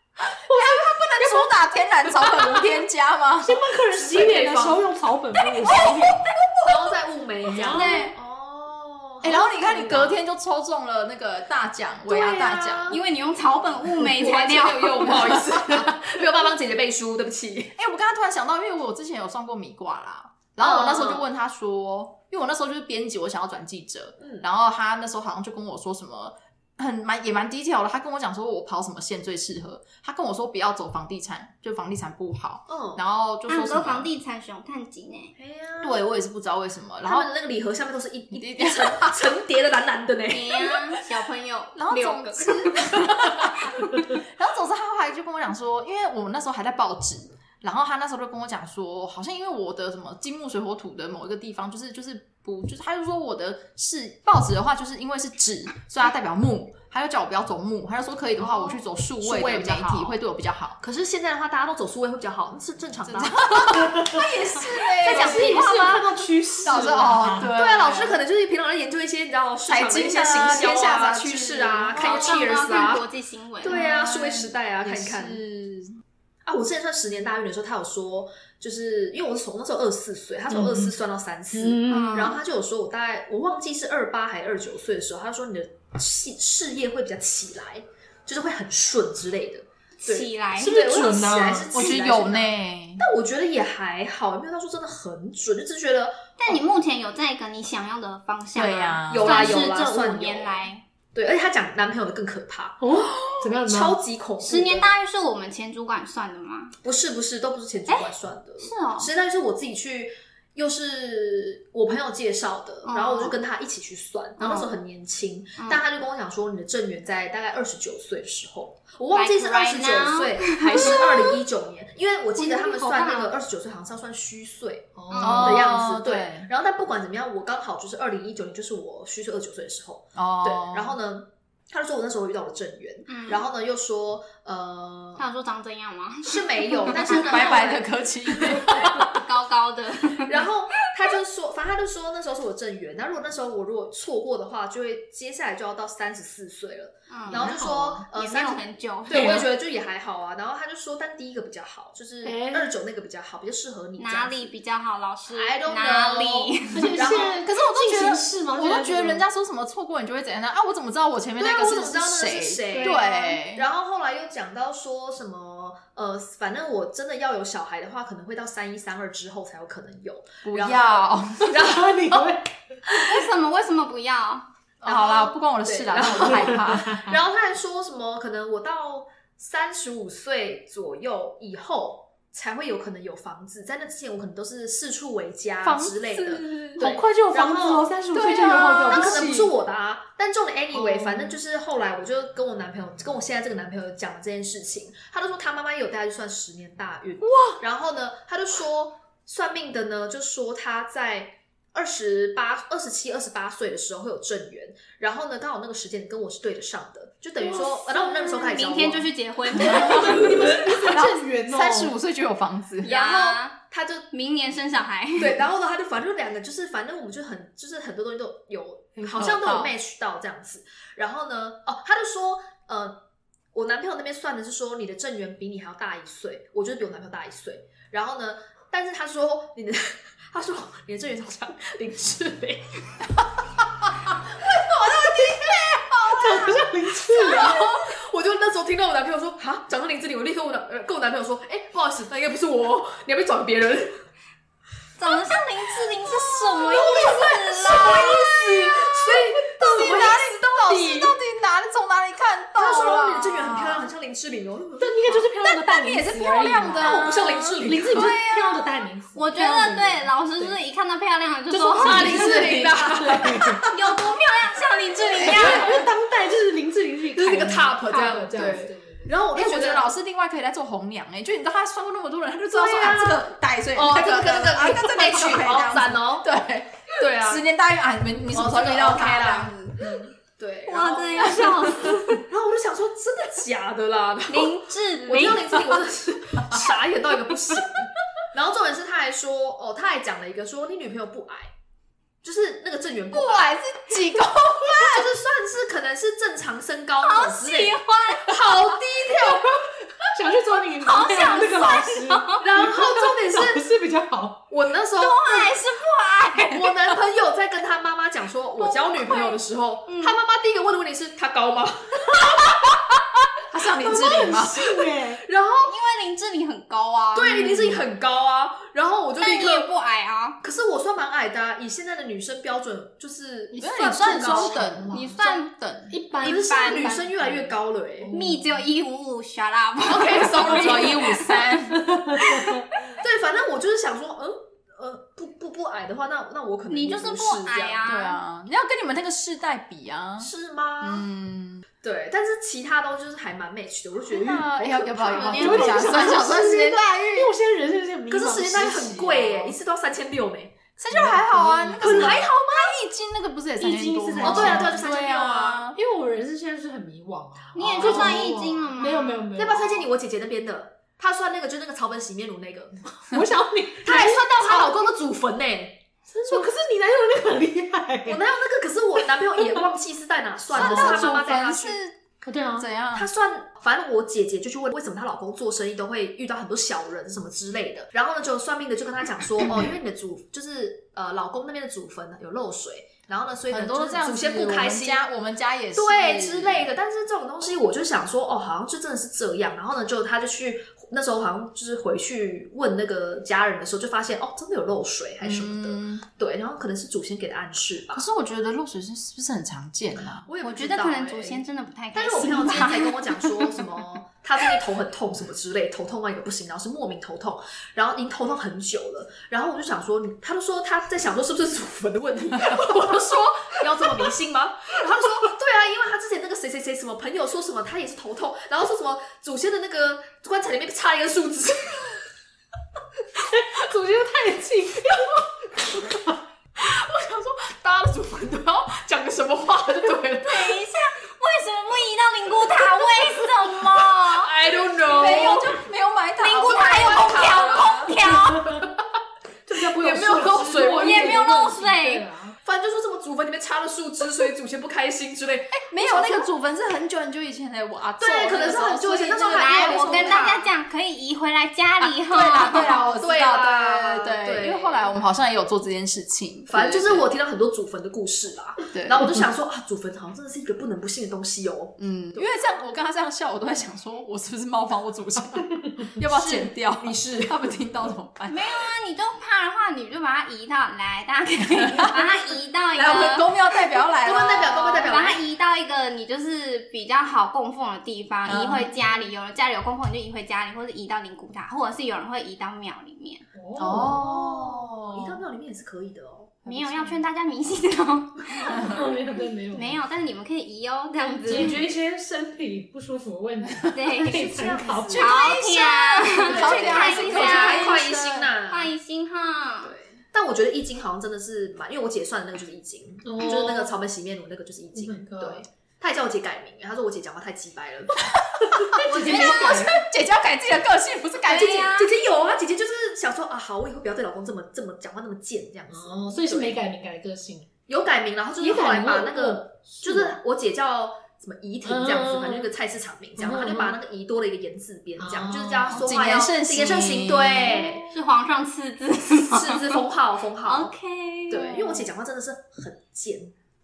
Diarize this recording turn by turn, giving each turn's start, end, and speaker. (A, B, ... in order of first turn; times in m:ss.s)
0:00.4-0:01.5 A
0:00.5-0:03.7 B
0:03.4-0:06.3 A
0:03.9-0:04.9 C
0:06.6-0:10.2 C
0:07.5-0:07.9 A
0:07.6-0:08.2 D
0:09.2-0:13.0 B
0:12.1-0:13.0 C
0:12.9-0:15.4 D
0:13.9-0:17.8 C
0:15.2-0:15.9 B
0:17.8-0:34.1 B
0:20.6-0:21.2 C
0:24.2-0:24.5 C
0:32.7-0:33.0 C
0:33.5-0:35.4 D
0:35.4-0:36.0 C
0:35.8-0:37.3 B
0:37.0-0:40.9 C
0:38.3-0:39.2 B
0:40.3-0:42.9 D
0:41.8-1:00.8 B
0:58.4-1:00.2 C
1:00.8-1:04.2 C
1:03.0-1:05.8 B
1:03.7-1:04.2 A
1:05.0-1:06.2 C
1:05.0-1:07.5 A
1:06.6-1:08.2 B
1:07.4-1:13.0 C
1:09.7-1:12.6 B
1:11.9-1:13.8 D
1:13.6-1:15.4 C
1:13.6-1:15.9 B
1:16.4-1:36.6 C
1:20.5-1:20.9 A
1:21.5-1:22.3 A
1:21.9-1:22.4 D
1:30.0-1:31.1 D
1:30.6-1:32.0 A
1:31.7-1:33.0 B
1:36.4-1:40.8 D
1:38.6-1:39.5 B
1:39.1-1:42.8 C
1:42.8-1:44.0 A
1:43.6-1:44.9 C
1:44.4-1:46.7 D
1:46.8-2:15.2 C
1:47.9-1:49.1 D
1:52.8-1:53.4 D
1:54.4-1:54.7 D
1:59.1-2:01.4 D
2:02.4-2:03.3 A
2:02.6-2:03.2 D
2:05.0-2:05.7 A
2:05.2-2:06.5 B
2:10.2-2:10.9 B
2:13.1-2:13.4 D
2:15.2-2:17.8 D
2:16.2-2:17.8 C
2:16.9-2:19.0 B
2:18.6-2:19.0 C
2:18.7-2:20.5 D
2:20.2-2:34.5 C
2:27.1-2:27.6 D
2:27.3-2:28.1 A
2:28.1-2:29.5 D
2:29.1-2:29.5 A
2:32.2-2:32.8 A
2:34.0-2:37.0 D
2:35.3-2:37.4 C
2:36.7-2:39.2 A
2:37.4-2:43.6 B
2:41.4-2:52.3 C
2:41.5-2:41.8 A
2:42.7-2:43.0 A
2:50.4-2:51.7 B
2:51.4-2:52.8 A
2:52.9-2:54.5 D
2:54.8-2:57.2 B
2:54.8-3:29.1 C
2:56.5-2:57.0 A
3:05.6-3:06.8 B
3:06.8-3:09.2 A
3:08.1-3:09.5 B
3:10.7-3:11.4 A
3:27.4-3:28.3 A
3:27.9-3:30.3 D
3:29.6-3:29.9 C
3:29.7-3:32.0 A
3:30.8-3:32.9 B
3:32.8-3:34.1 C
3:32.8-3:33.6 D
3:34.1-3:35.4 D
3:35.2-3:52.9 C
3:39.0-3:39.7 B
3:54.4-3:56.2 C
3:56.0-3:56.6 B
3:56.1-3:57.8 A
3:57.1-4:04.0 C
3:57.4-3:57.7 B
4:05.0-4:08.6 D
4:06.5-4:11.2 C
4:08.6-4:13.9 B
4:12.6-4:15.1 C
4:14.8-4:17.0 A
4:15.1-4:17.6 B
4:16.8-4:18.1 C
4:17.6-4:20.6 A
4:17.9-4:22.6 D
4:21.5-4:23.8 B
4:21.7-4:23.4 C
4:22.8-4:23.6 A
4:23.7-4:25.8 D
4:25.1-4:25.7 B
4:25.2-4:29.1 A
4:27.1-4:29.9 C
4:29.3-4:40.1 B
4:32.5-4:33.2 C
4:33.7-4:36.3 C
4:36.9-4:37.4 C
4:38.3-4:51.5 C
4:40.6-4:42.2 D
4:44.3-4:45.9 D
4:52.2-4:53.6 C
4:53.1-4:55.1 B
4:54.6-4:59.7 C
4:57.0-4:58.4 D
5:00.1-5:04.4 A
5:00.8-5:02.4 D
5:02.4-5:03.6 C
5:04.5-5:05.6 C
5:04.9-5:06.6 D
5:06.5-5:12.6 C
5:08.6-5:10.2 D
5:13.5-5:14.6 B
5:13.8-5:15.2 A
5:15.2-5:15.8 C
5:15.6-5:17.8 D
5:17.1-5:19.7 C
5:19.2-5:20.4 D
5:20.4-5:24.7 C
5:23.6-5:25.9 B
5:23.8-5:25.2 A
5:24.9-5:25.5 D
5:25.9-5:28.6 A
5:26.2-5:27.0 D
5:26.2-5:28.1 C
5:28.1-5:31.5 D
5:29.9-5:32.0 B
5:30.0-5:30.9 C
5:31.7-5:32.6 A
5:32.2-5:32.5 D
5:33.0-5:37.8 C
5:36.7-5:38.2 D
5:37.8-5:40.3 B
5:40.2-5:41.1 C
5:40.8-5:41.6 B
5:41.8-5:46.2 C
5:44.1-5:47.3 B
5:45.1-5:46.4 D
5:45.3-5:49.5 A
5:48.1-5:50.6 C
5:50.8-5:55.8 B
5:50.9-5:52.2 A
5:51.8-5:52.8 C
5:53.6-5:54.8 A
5:54.2-5:55.7 C
5:55.7-5:59.9 A
5:57.6-5:59.3 D
5:57.6-5:58.4 C
5:57.8-5:58.2 B
5:59.4-6:02.8 C
6:02.9-6:04.6 A
6:03.8-6:05.8 C
6:06.1-6:08.2 A
6:08.1-6:11.8 C
6:10.5-6:11.7 D
6:10.5-6:11.9 B
6:12.2-6:12.7 A
6:12.6-6:13.1 B
6:12.9-6:25.0 C
6:23.5-6:26.7 B
6:25.8-6:38.1 C
6:35.2-6:36.0 B
6:37.9-6:40.2 B
6:40.2-7:02.0 C
6:40.4-6:43.6 D
6:52.3-6:54.1 B
7:03.1-7:06.2 A
7:06.6-7:10.6 C
7:10.2-7:14.4 D
7:14.1-7:15.6 C
7:14.9-7:18.0 B
7:14.9-7:15.4 D
7:16.2-7:18.6 D
7:16.4-7:17.8 C
7:18.3-7:18.6 A
7:19.5-7:22.4 A
7:19.8-7:21.2 C
7:19.8-7:21.2 B
7:20.8-7:22.1 D
7:22.4-7:26.3 C
7:25.5-7:30.3 B
7:28.0-7:30.5 C
7:29.2-7:32.8 D
7:31.8-7:37.1 B
7:32.3-7:35.0 C
7:36.5-7:42.2 C
7:38.7-7:39.2 B
7:41.8-7:48.7 B
7:46.0-7:47.5 C
7:48.3-7:53.4 D
7:51.5-7:52.2 B
7:52.8-7:54.7 B
7:54.0-7:55.2 C
7:54.5-8:03.2 D
7:58.2-7:58.7 B
8:03.3-8:04.0 A
8:03.6-8:05.2 B
8:03.6-8:06.9 C
8:06.4-8:08.8 D
8:08.6-8:09.8 A
8:09.5-8:11.6 D
8:11.2-8:15.1 A
8:13.7-8:19.8 D
8:14.2-8:15.5 C
8:14.9-8:18.3 B
8:16.2-8:18.7 C
8:19.6-8:28.0 C
8:23.0-8:23.8 A
8:24.8-8:25.4 A
8:28.1-8:31.7 B
8:28.4-8:29.8 A
8:28.9-8:29.2 D
8:29.0-8:29.6 C
8:31.2-8:31.9 D
8:31.3-8:36.6 C
8:35.7-8:37.5 A
8:37.7-8:47.9 C
8:38.4-8:40.2 A
8:41.6-8:42.5 A
8:43.2-8:43.8 A
8:45.0-8:45.7 A
8:45.7-8:47.7 B
8:47.4-8:49.8 D
8:49.3-8:50.7 C
8:50.4-8:51.9 D
8:51.3-8:53.3 C